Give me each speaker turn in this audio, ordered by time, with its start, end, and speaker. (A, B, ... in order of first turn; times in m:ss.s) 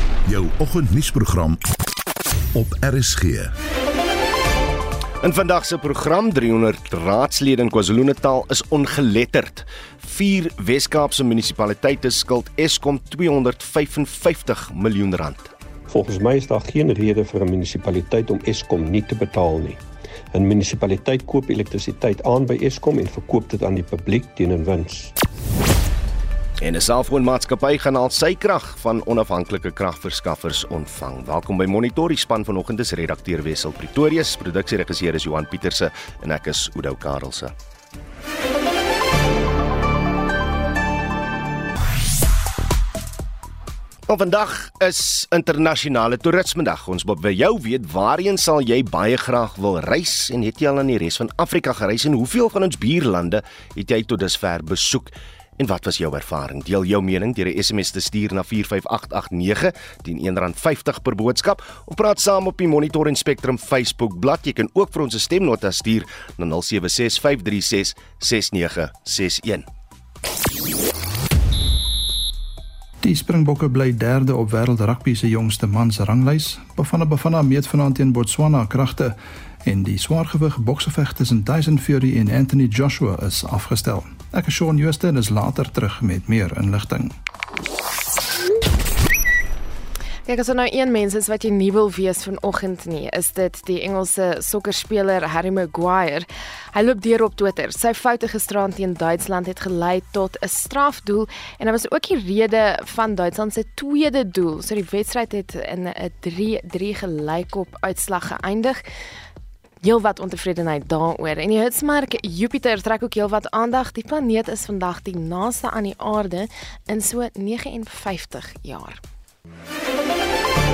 0:00.2-0:01.6 A
0:02.5-0:03.5 A
0:05.2-0:15.5 B
0:15.9-0:25.1 C
0:26.6-0:37.5 B
0:44.1-1:09.6 B
1:13.0-1:27.2 D
1:30.3-1:48.8 E
1:49.8-1:59.0 E